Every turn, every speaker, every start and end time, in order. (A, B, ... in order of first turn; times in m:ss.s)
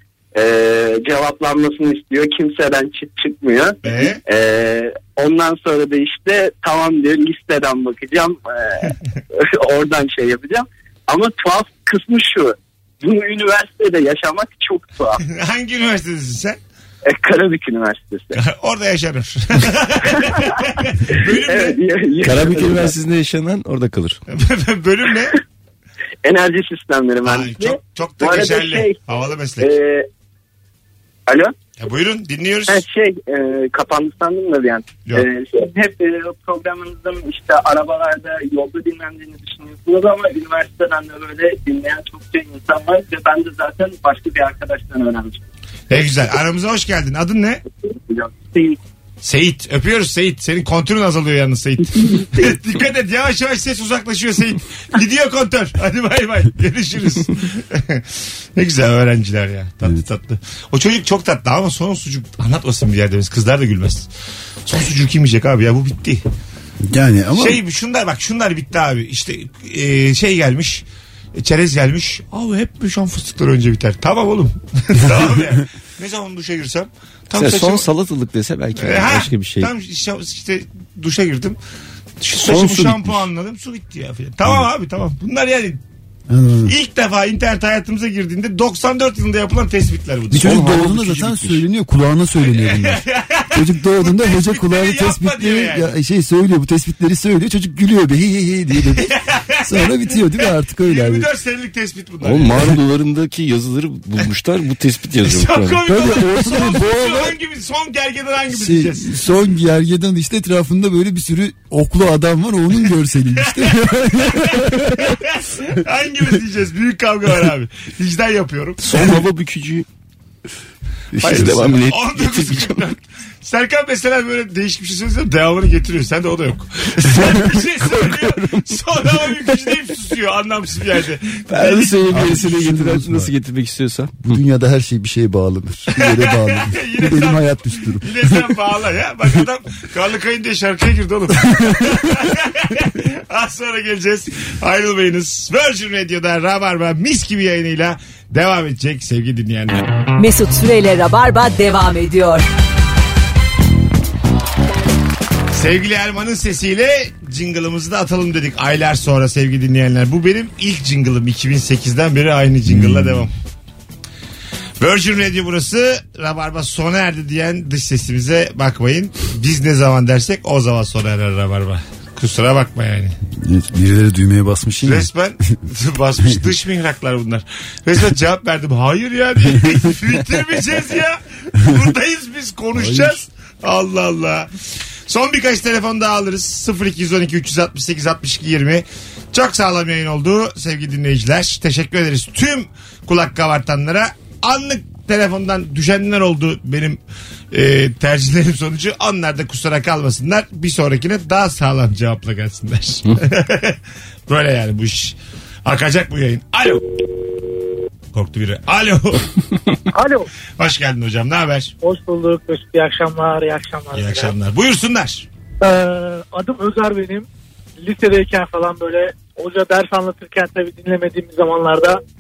0:00.4-0:15.2 A
0:03.8-0:04.2 B
0:15.2-0:16.6 B
0:17.0-0:18.4 A
0:18.3-0:21.8 B
0:21.4-0:23.0 A
0:22.2-0:24.2 C
0:24.3-0:25.4 B
0:26.2-0:29.0 A
0:27.2-0:29.7 B
0:29.6-0:30.1 A
0:31.3-0:31.5 A
0:31.8-0:32.8 B
0:32.7-0:45.4 A
0:45.9-0:47.6 B
0:47.9-0:48.8 A
0:49.2-0:58.0 B
0:58.6-1:04.1 B
1:04.7-1:06.2 B
1:06.9-1:07.6 D
1:07.3-1:10.8 B
1:11.4-1:17.9 B
1:17.3-1:19.7 C
1:18.8-1:21.6 B
1:22.2-1:25.8 B
1:22.4-1:23.2 C
1:26.3-1:26.7 D
1:26.7-1:30.6 B
1:30.3-1:39.1 D
1:30.4-1:31.6 C
1:32.5-1:36.0 B
1:38.9-1:40.2 B
1:39.6-1:41.3 D
1:40.8-1:42.7 B
1:42.2-1:45.8 C
1:45.2-1:49.1 B
1:45.9-1:47.4 D
1:48.5-1:55.2 D
1:53.5-1:58.8 B
1:58.8-1:59.9 C
2:01.2-2:01.6 D
2:01.2-2:02.8 C
2:01.2-2:12.1 B
2:08.0-2:08.6 C
2:11.5-2:14.4 C
2:12.1-2:13.3 D
2:14.2-2:18.4 D
2:16.0-2:29.9 B
2:21.5-2:21.9 D
2:30.1-2:32.5 E
2:35.5-2:43.3 B
2:42.7-2:43.3 D
2:44.8-2:53.2 B
2:53.3-2:55.1 D
2:54.8-3:04.5 B
3:02.8-3:03.2 D
3:05.1-3:17.0 B
3:17.5-3:26.8 B
3:28.1-3:29.3 B
3:29.9-3:30.3 F
3:30.6-3:31.7 B
3:31.8-3:34.3 F
3:33.9-3:35.3 B
3:35.6-3:37.3 F
3:37.8-3:42.0 F